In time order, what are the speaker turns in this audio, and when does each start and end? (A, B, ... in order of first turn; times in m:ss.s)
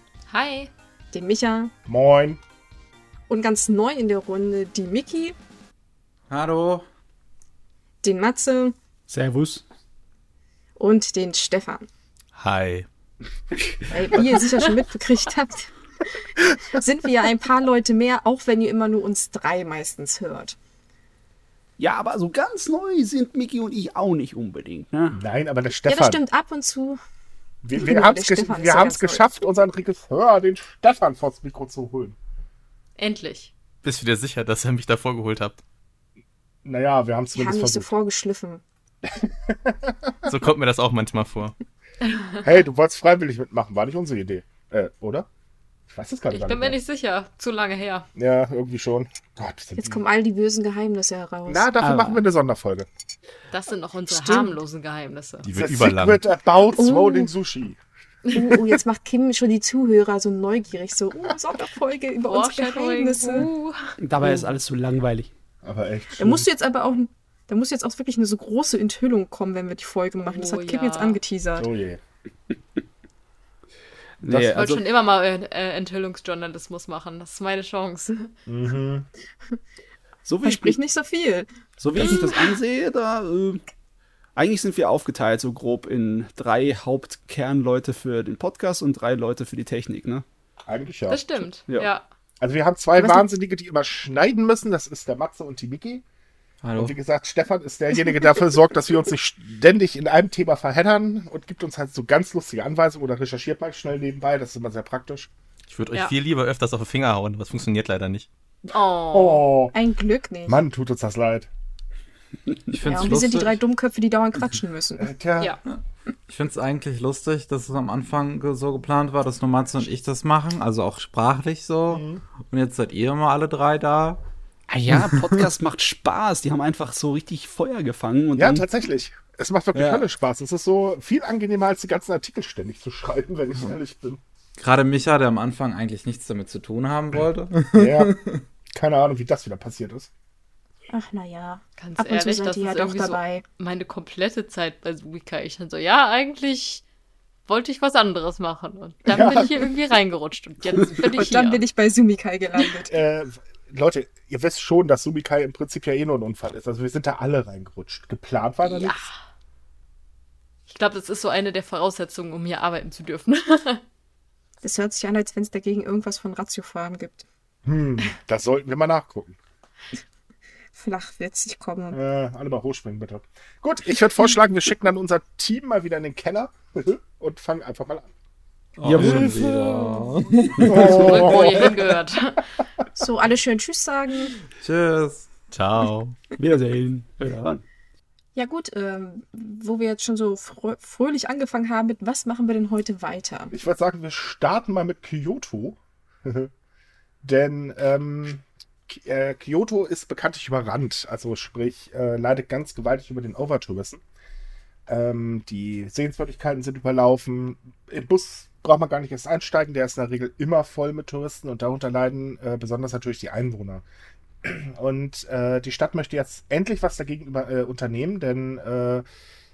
0:00.3-0:00.7 A
0:01.1-0:01.7 B
0:01.9-0:02.4 C
0:03.3-0:05.4 B
0:06.3-0:06.9 D
0:08.0-0:08.7 B
0:09.1-0:09.6 E
0:10.8-0:11.9 B
0:12.3-0:12.8 F
0:13.9-0:16.2 B
0:16.7-0:20.6 B
0:21.8-0:25.2 E
0:25.1-0:26.2 C
0:25.9-0:27.0 B
0:27.6-0:32.2 C
0:27.7-0:29.2 B
0:33.0-0:33.5 A
0:33.8-0:35.6 F
0:36.6-0:37.9 C
0:37.3-0:38.6 B
0:39.0-0:40.3 C
0:40.2-0:41.5 F
0:42.0-0:42.3 A
0:42.4-0:45.3 C
0:45.9-0:46.8 C
0:46.3-0:48.1 A
0:48.1-0:50.0 C
0:49.8-0:51.7 B
0:51.4-0:52.9 C
0:51.8-0:52.1 E
0:53.5-0:55.5 A
0:54.1-0:54.6 B
0:55.4-0:56.2 F
0:55.6-0:57.8 C
0:56.8-0:57.3 B
0:58.3-1:03.5 B
1:02.3-1:03.8 A
1:04.0-1:05.3 E
1:05.6-1:06.5 C
1:06.2-1:11.7 B
1:10.2-1:11.2 A
1:11.6-1:12.0 C
1:14.2-1:14.8 E
1:14.5-1:18.3 A
1:18.4-1:19.1 C
1:20.2-1:20.8 E
1:20.4-1:22.3 B
1:21.8-1:23.6 E
1:24.3-1:30.2 E
1:30.7-1:31.4 C
1:31.1-1:32.0 A
1:32.4-1:36.0 C
1:36.6-1:36.9 D
1:36.8-1:45.3 C
1:45.7-1:48.3 F
1:48.7-1:49.4 A
1:49.1-1:49.7 C
1:49.7-1:50.6 B
1:50.5-1:51.5 C
1:52.7-1:53.6 D
1:52.8-1:55.1 B
1:55.0-1:55.6 C
1:56.3-2:04.2 D
2:01.9-2:02.2 C
2:04.7-2:08.6 E
2:08.4-2:14.2 C
2:09.8-2:10.0 E
2:14.6-2:18.1 D
2:17.7-2:18.1 C
2:18.7-2:20.1 C
2:20.9-2:23.4 B
2:21.8-2:26.8 A
2:27.5-2:31.6 A
2:29.1-2:29.6 C
2:31.0-2:32.9 B
2:32.9-2:39.1 C
2:38.6-2:39.2 A
2:40.7-2:43.8 A
2:44.6-2:47.2 B
2:47.6-2:49.4 C
2:50.8-2:52.0 B
2:51.9-2:58.1 C
2:58.8-3:01.0 D
2:58.8-3:01.3 E
2:59.0-2:59.4 C
3:00.6-3:01.8 C
3:00.8-3:02.4 A
3:02.9-3:04.4 B
3:04.6-3:05.5 D
3:05.5-3:06.2 F
3:06.4-3:07.6 E
3:08.4-3:13.5 B
3:13.5-3:16.5 C
3:17.2-3:24.0 C
3:24.9-3:33.8 C
3:34.4-3:39.0 C